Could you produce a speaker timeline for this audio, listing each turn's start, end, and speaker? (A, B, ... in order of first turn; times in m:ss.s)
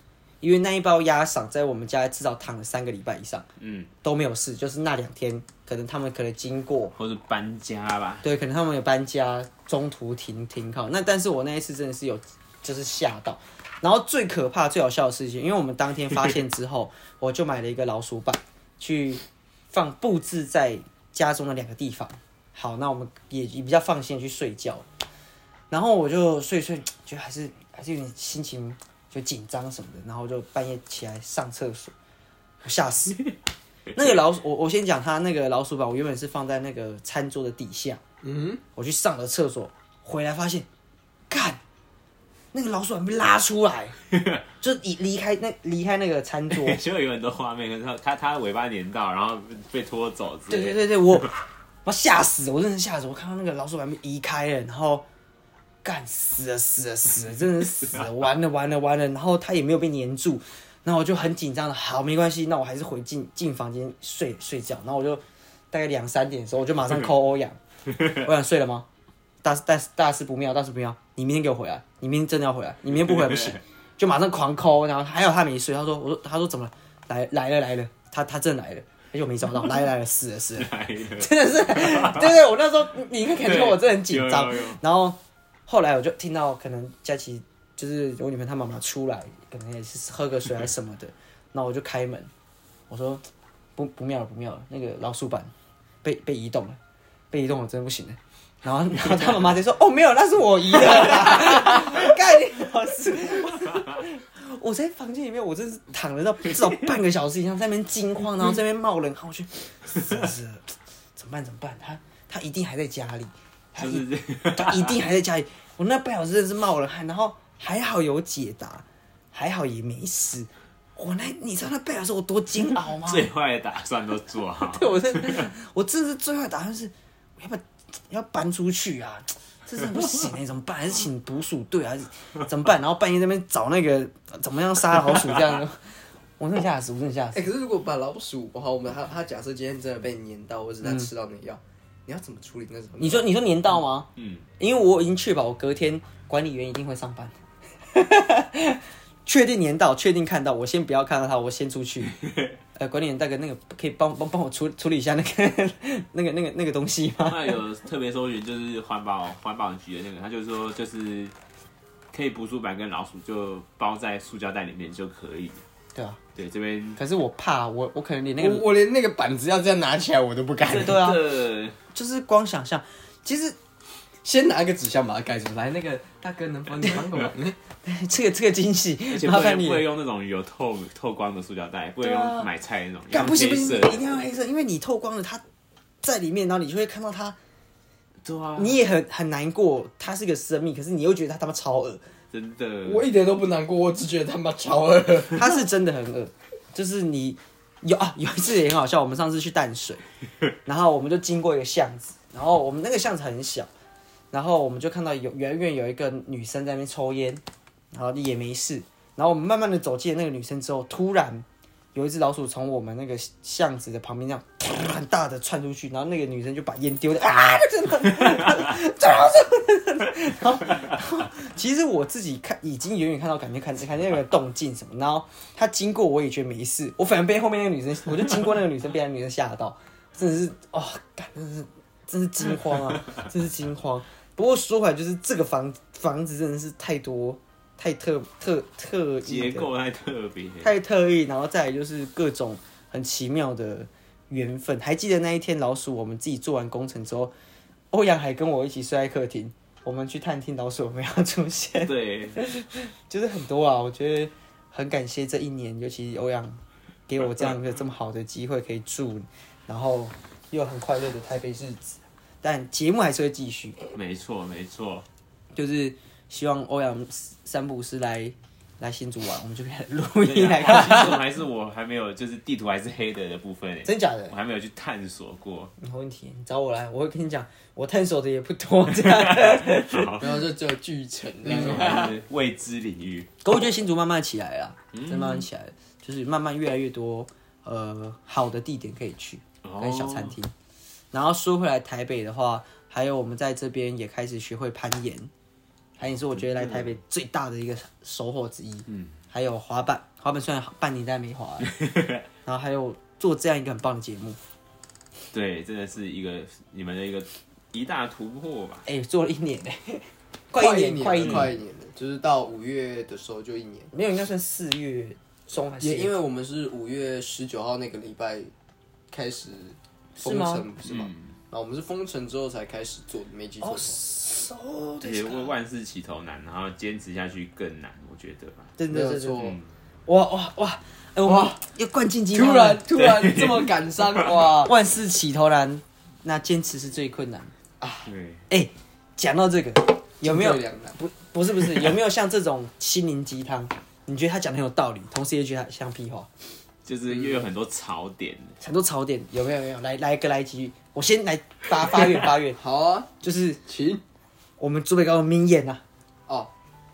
0:00.4-0:03.5 A
0:03.6-0:03.9 B
0:04.0-0:06.9 A
0:07.0-0:08.2 B
0:08.2-0:24.9 A
0:25.7-0:31.9 A
0:32.6-0:33.2 A
0:34.0-0:38.0 A
0:38.2-0:38.6 C
0:38.8-0:40.7 A
0:41.3-0:41.6 A
0:42.5-0:44.0 A
0:44.1-0:44.4 B
0:44.6-0:46.8 A
0:46.5-0:50.9 B
0:50.5-0:55.1 A
0:55.8-1:08.9 A
1:09.4-1:32.3 A
1:13.1-1:13.6 B
1:20.6-1:22.3 B
1:23.4-1:24.8 B
1:32.9-1:33.2 A
1:33.8-1:35.5 A
1:36.0-1:36.8 A
1:37.3-2:03.3 A
1:53.8-1:55.0 B
2:02.8-2:05.5 B
2:04.7-2:17.5 A
2:17.3-2:23.3 C
2:20.8-2:21.1 A
2:23.0-2:24.1 A
2:24.2-2:24.5 B
2:24.6-2:27.4 A
2:27.9-2:32.2 A
2:32.8-2:37.6 A
2:37.3-2:41.3 B
2:42.1-2:45.6 B
2:46.0-2:46.2 A
2:46.4-2:47.0 B
2:47.0-2:48.7 A
2:48.4-2:51.1 C
2:50.7-2:51.8 B
2:50.7-2:51.2 A
2:51.9-2:53.6 A
2:54.2-2:57.6 C
2:56.8-2:57.1 A
2:57.8-2:59.9 A
2:59.1-3:04.1 B
3:02.0-3:02.5 A
3:03.1-3:05.4 A
3:06.0-3:07.4 A
3:08.2-3:08.8 B
3:08.6-3:12.0 A
3:12.3-3:13.1 B
3:12.8-3:15.6 C
3:15.3-3:20.0 A
3:20.6-3:23.7 A
3:24.3-3:59.7 A
3:59.2-4:00.7 B
4:00.6-4:07.3 A
4:07.9-4:23.8 A
4:11.9-4:12.4 B
4:23.9-4:25.1 B
4:25.5-4:31.2 A
4:30.2-4:35.7 B
4:33.8-4:34.4 A
4:35.8-4:40.2 A
4:39.1-4:40.3 B
4:40.2-4:42.2 C
4:41.4-4:43.3 B
4:43.4-4:50.5 A
4:44.9-4:45.5 B
4:49.6-4:50.4 B
4:51.1-4:55.3 A
4:56.0-5:01.7 A
4:56.4-4:56.9 B
4:58.9-4:59.1 B
5:01.7-5:02.2 B
5:02.4-5:04.4 A
5:05.3-5:08.8 B
5:08.9-5:11.5 A
5:10.6-5:13.9 C
5:13.9-5:16.1 A
5:15.8-5:18.5 C
5:19.1-5:24.0 C
5:20.2-5:20.7 A
5:20.8-5:21.3 B
5:23.6-5:25.5 A
5:25.0-5:28.8 B
5:28.8-5:32.8 A
5:28.9-5:29.6 C
5:29.4-5:29.7 B
5:31.2-5:31.6 C
5:32.3-5:34.8 C
5:32.9-5:34.3 B
5:34.6-5:37.5 A
5:38.1-5:38.4 B
5:38.5-5:46.3 A
5:40.2-5:41.0 C
5:46.9-5:48.6 B
5:47.2-5:47.4 C
5:48.6-5:52.6 A
5:52.6-5:53.1 C
5:53.2-5:53.6 A
5:53.7-5:54.0 C
5:54.6-5:55.8 A